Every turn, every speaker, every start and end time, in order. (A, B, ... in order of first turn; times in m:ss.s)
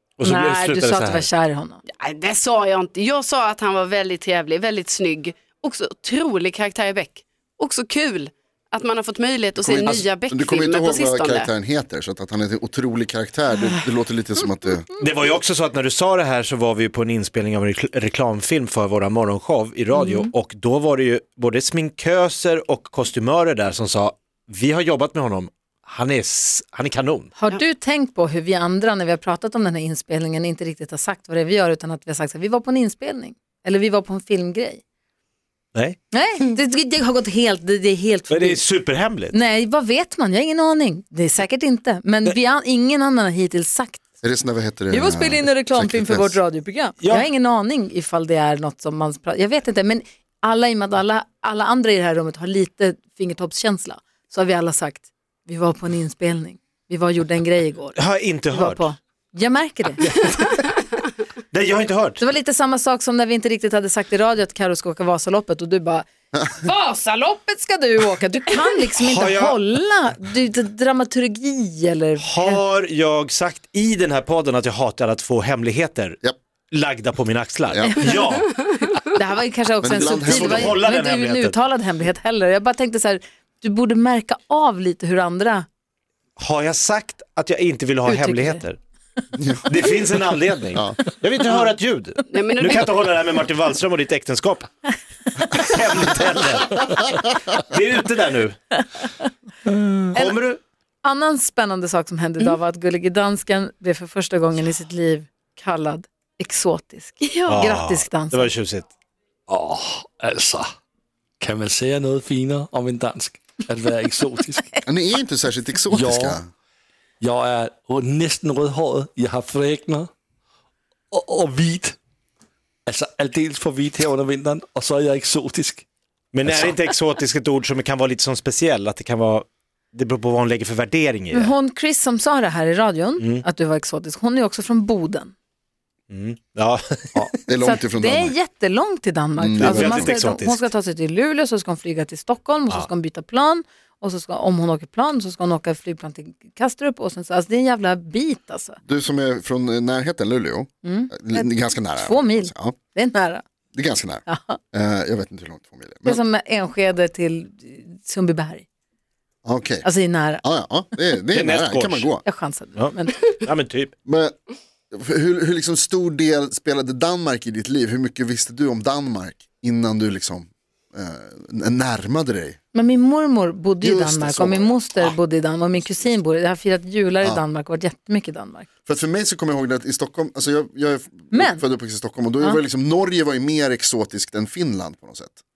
0:00.2-0:01.3 A
0:00.2-0:01.8 B
0:01.9-0:11.5 C
0:09.6-0:14.9 D
0:15.0-0:27.3 A
0:27.4-0:34.8 B
0:36.1-0:38.6 B
0:38.3-0:39.4 A
0:39.3-0:44.0 B
0:44.2-0:46.4 D
0:44.9-1:00.1 B
0:47.0-0:47.3 A
0:58.0-0:58.8 A
1:01.5-1:02.2 A
1:02.2-1:12.6 B
1:09.0-1:09.6 A
1:12.2-1:16.2 A
1:16.7-1:18.5 A
1:17.7-1:18.1 D
1:17.8-1:18.2 B
1:18.4-1:19.0 C
1:19.1-1:25.7 B
1:19.8-1:20.8 D
1:20.2-1:21.6 A
1:26.4-1:28.8 A
1:28.1-1:28.6 B
1:29.4-1:29.9 D
1:29.7-1:34.7 A
1:32.3-1:33.0 C
1:35.6-1:37.0 A
1:37.6-1:38.6 A
1:40.1-1:40.6 A
1:41.0-1:48.5 B
1:47.2-1:47.7 C
1:47.5-1:48.9 A
1:49.5-1:50.7 E
1:51.4-1:54.8 E
1:54.9-1:56.5 D
1:55.9-1:56.4 E
1:57.2-2:00.1 E
2:01.1-2:02.0 E
2:02.9-2:05.8 E
2:06.3-2:11.5 A
2:06.4-2:06.7 E
2:11.3-2:15.3 B
2:13.2-2:13.4 A
2:16.1-2:17.3 A
2:17.5-2:18.4 D
2:17.6-2:28.8 B
2:19.4-2:20.2 D
2:19.6-2:20.7 A
2:28.8-2:32.8 D
2:30.8-2:33.4 B
2:33.7-2:36.2 D
2:34.3-2:34.6 B
2:36.1-2:38.6 B
2:39.4-2:42.2 D
2:39.8-2:40.4 B
2:41.3-2:42.1 A
2:42.2-2:43.2 B
2:42.8-2:43.9 A
2:44.0-2:44.4 D
2:44.9-2:52.6 D
2:52.7-2:58.7 B
2:53.8-2:55.2 D
2:55.7-2:56.1 D
2:58.9-3:05.4 D
3:01.3-3:01.6 B